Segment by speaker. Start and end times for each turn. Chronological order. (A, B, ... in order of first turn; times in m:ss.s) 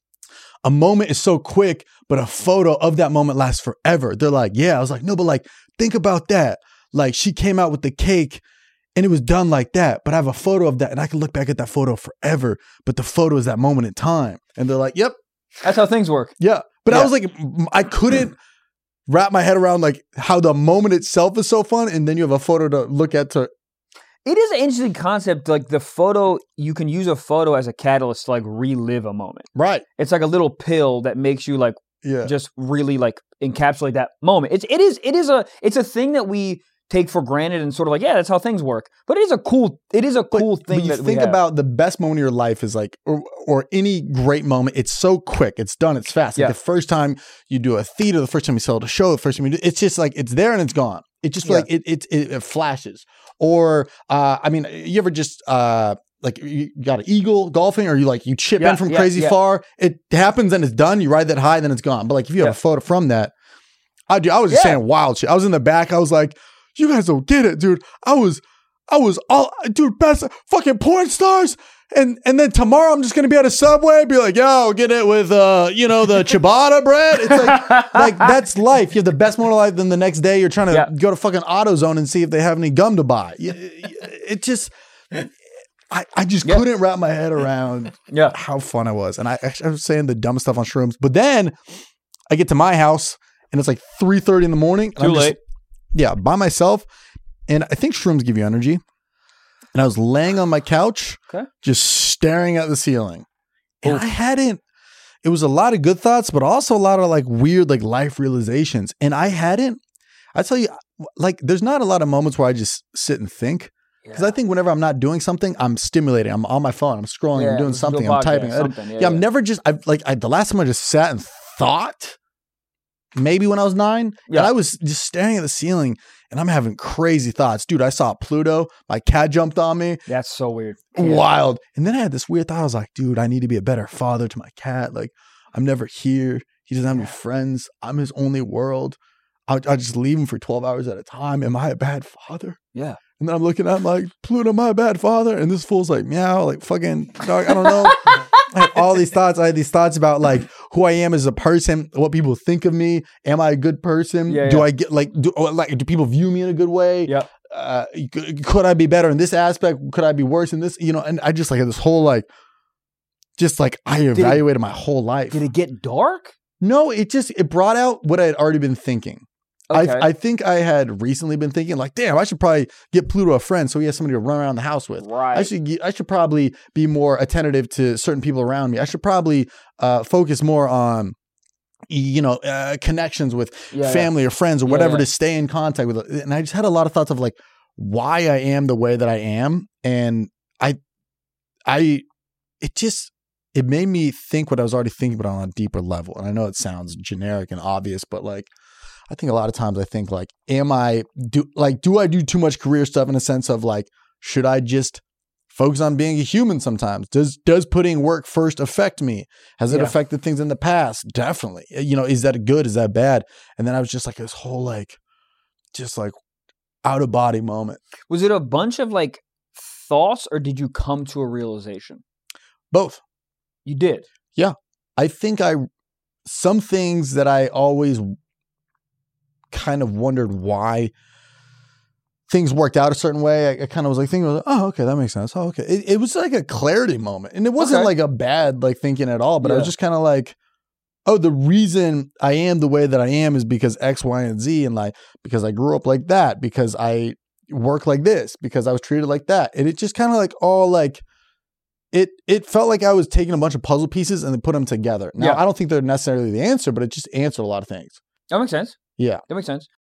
0:00.6-0:08.4 A
0:09.0-0:15.2 A
0:15.6-0:16.3 B
0:16.4-0:18.4 A
0:19.1-0:23.5 A
0:24.2-0:41.4 B
0:29.6-0:29.8 A
0:32.0-0:32.3 A
0:40.3-1:03.3 A
0:58.6-0:59.4 B
1:04.1-1:25.3 A
1:04.5-1:04.8 B
1:17.3-1:18.3 B
1:25.9-1:31.6 A
1:28.1-1:28.4 B
1:32.3-1:35.4 A
1:35.0-1:35.4 B
1:35.9-1:36.8 A
1:37.5-1:38.8 A
1:39.7-1:43.2 A
1:43.8-1:44.6 A
1:45.2-1:49.8 A
1:50.4-2:02.2 A
1:54.0-1:54.4 B
1:57.3-1:59.2 B
2:03.2-2:10.0 A
2:10.1-2:11.2 B
2:11.0-2:19.0 A
2:19.5-2:22.6 A
2:22.8-2:23.0 B
2:23.2-2:42.3 A
2:27.5-2:28.4 B
2:34.3-2:34.7 B
2:43.4-2:45.4 A
2:44.1-2:44.4 B
2:45.3-2:46.3 B
2:46.6-3:01.2 A
2:49.7-2:50.1 B
2:55.0-2:55.5 B
3:01.9-3:10.8 A
3:03.7-3:04.1 B
3:04.6-3:05.1 B
3:11.7-3:12.0 A
3:12.6-3:18.5 A
3:19.1-3:35.0 A
3:29.7-3:30.0 B
3:35.7-3:36.2 A
3:36.8-3:37.8 A
3:38.1-3:42.0 B
3:42.7-3:43.0 A
3:43.7-3:44.1 B
3:44.4-3:45.6 A
3:46.2-3:48.1 A
3:49.5-3:50.9 A
3:52.3-4:00.4 A
3:57.6-3:57.9 B
3:59.4-3:59.7 B
4:01.1-4:11.0 A
4:11.9-4:18.0 A
4:18.3-4:19.7 B
4:19.0-4:19.2 A